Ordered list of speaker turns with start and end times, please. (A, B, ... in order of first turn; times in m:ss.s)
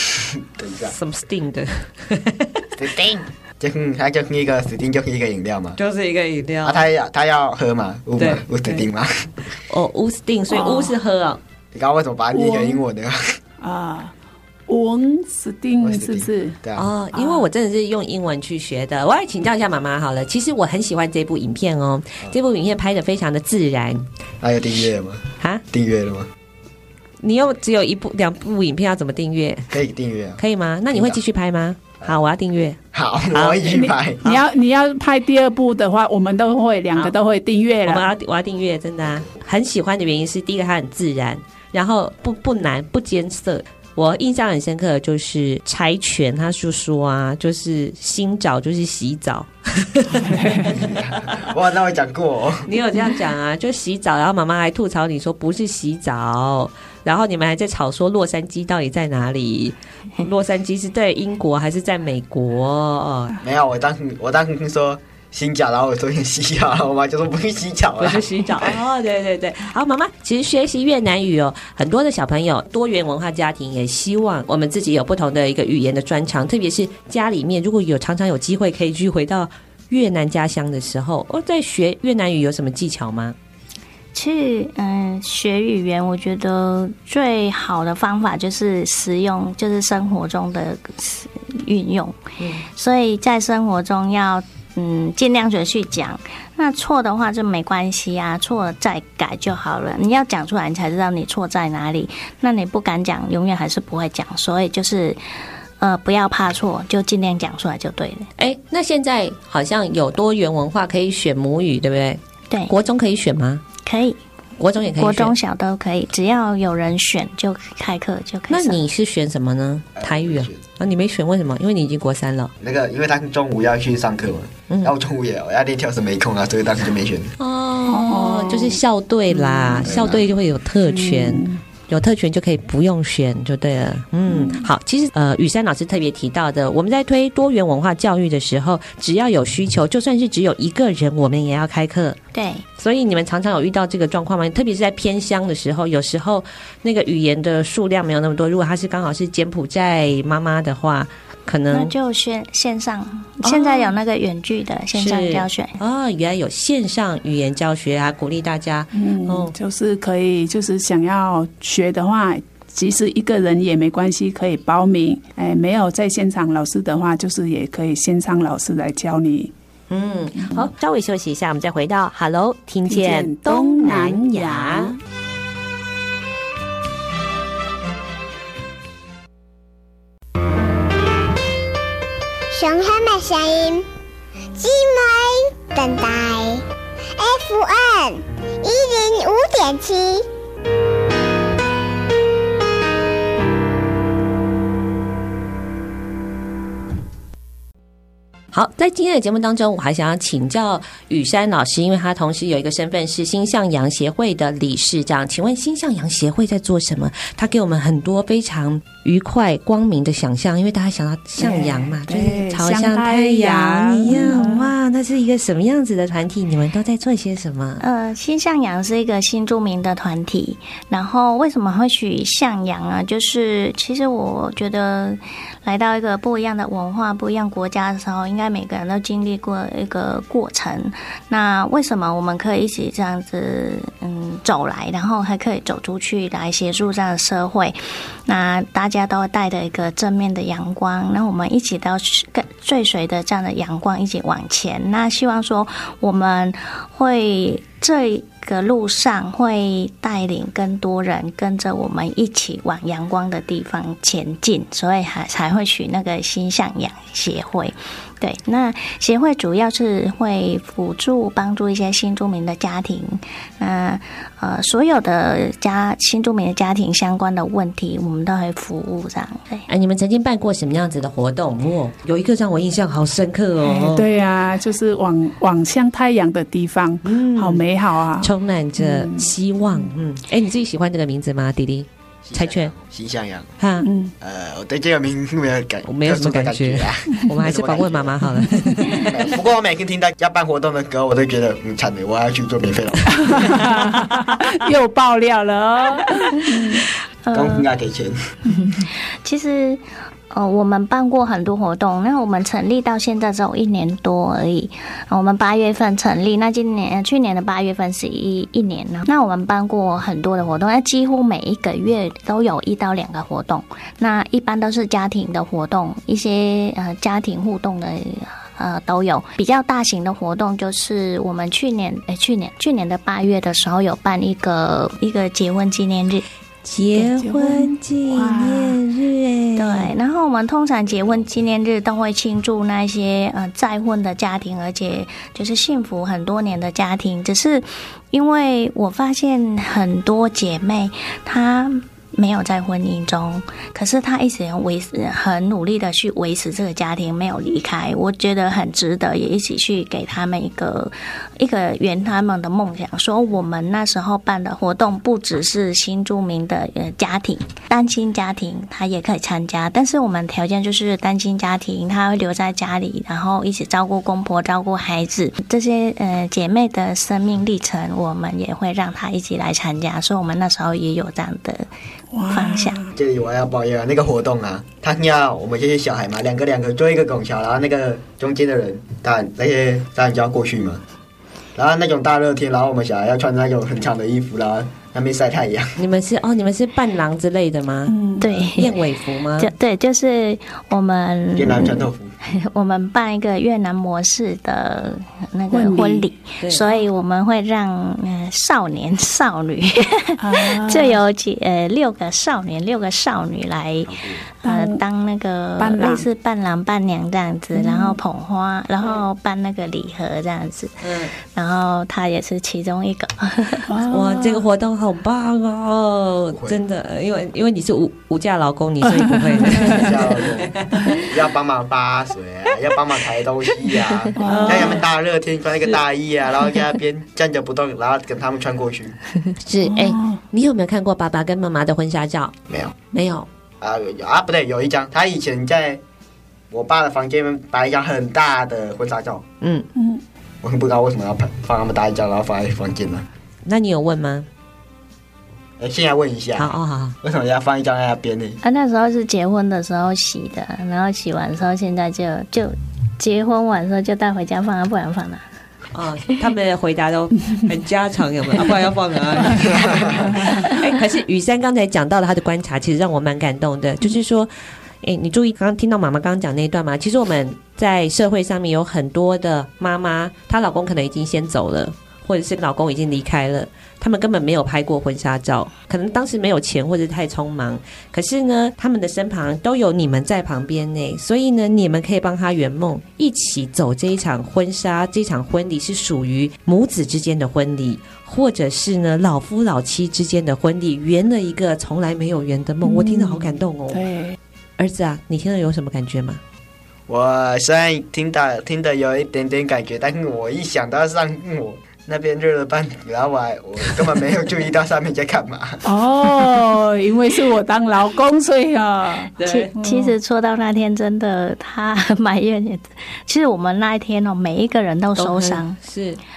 0:00.3-0:00.9 A
0:00.9-0:02.6 B
0:02.8-0:05.8 A
0:05.8-0:06.8 B
0:06.6-0:09.3 A
0:08.2-0:08.8 B
0:09.7-0:11.4 B
0:10.5-0:10.9 C
0:11.7-0:13.4 A
0:12.3-0:12.8 C
0:13.6-0:14.1 C
0:14.7-0:16.6 C
0:15.8-0:16.9 A
0:16.8-0:24.1 B
0:17.1-0:17.5 C
0:24.4-0:26.3 A
0:27.2-0:29.7 B
0:29.7-0:30.4 A
0:30.4-0:32.8 B
0:30.9-0:31.2 A
0:32.9-0:34.2 A
0:33.3-0:34.4 B
0:34.2-0:38.1 C
0:37.8-0:50.7 B
0:50.2-0:50.7 C
0:50.6-0:52.6 A
0:52.6-1:03.4 B
1:03.4-1:08.8 A
1:08.0-1:23.3 B
1:24.1-1:45.2 D
1:45.8-1:48.3 D
1:48.4-1:53.6 B
1:53.8-1:54.2 D
1:54.6-1:55.3 B
1:55.0-1:58.8 D
1:58.5-2:02.5 B
2:00.0-2:00.6 A
2:02.6-2:07.3 A
2:07.4-2:22.2 B
2:07.9-2:08.8 C
2:09.3-2:09.9 C
2:09.8-2:10.2 A
2:10.8-2:11.6 C
2:14.3-2:14.7 C
2:22.3-2:22.6 D
2:22.8-2:31.9 B
2:31.7-2:35.8 D
2:33.4-2:33.9 B
2:34.9-2:39.5 B
2:38.9-2:49.5 C
2:49.9-2:54.9 B
2:52.8-2:55.0 C
3:02.5-3:03.8 E
3:04.6-3:06.6 E
3:07.2-3:10.2 E
3:18.5-3:37.8 B
3:31.4-3:34.7 C
3:37.8-4:29.6 D
4:29.7-4:34.1 B
4:33.6-4:39.9 C
4:37.0-4:37.6 B
4:38.2-4:42.7 B
4:42.2-4:43.5 A
4:43.6-4:43.9 B
4:43.8-4:44.1 C
4:44.2-4:48.3 A
4:45.9-4:49.2 B
4:49.0-4:53.6 A
4:53.1-4:56.8 C
4:57.2-4:57.6 D
4:57.3-4:58.2 A
4:58.7-5:26.2 D
5:26.6-5:29.9 B
5:26.9-5:28.8 C
5:29.6-6:11.7 D
6:12.1-6:12.9 C
6:12.3-6:12.8 D
6:13.0-6:20.8 A
6:21.5-6:25.8 A
6:25.8-6:27.9 B
6:27.9-6:28.2 C
6:28.2-6:28.8 D
6:28.5-6:29.5 B
6:29.4-6:53.7 D
6:31.4-6:32.1 A
6:35.5-6:36.0 C
6:40.2-6:41.0 C
6:43.9-6:44.2 A
6:44.4-6:44.8 C
6:45.6-6:46.0 C
6:47.5-6:48.0 C
6:50.8-6:51.1 B
6:53.7-6:54.4 C
6:53.9-7:01.1 B
6:56.3-6:56.6 A
6:59.0-6:59.9 C
6:59.6-7:09.0 A
7:04.2-7:04.8 C
7:04.2-7:04.8 B
7:09.4-7:12.3 B
7:09.6-7:10.2 C
7:12.5-7:12.7 A
7:12.9-7:13.3 B
7:13.6-7:15.8 A
7:16.5-7:19.2 A
7:19.4-7:19.6 B
7:19.8-7:20.0 C
7:20.4-7:23.0 A
7:23.4-7:24.3 B
7:25.6-7:28.4 A
7:26.4-7:27.0 B
7:28.4-7:35.2 D
7:35.7-7:44.3 B
7:39.2-7:40.4 C
7:39.5-7:40.0 A
7:44.8-8:13.9 B
8:12.6-8:14.2 C
8:14.6-8:16.2 B
8:16.9-8:25.6 A
8:25.6-8:29.1 C
8:29.2-8:29.6 B
8:29.2-8:35.6 D
8:35.0-8:36.0 B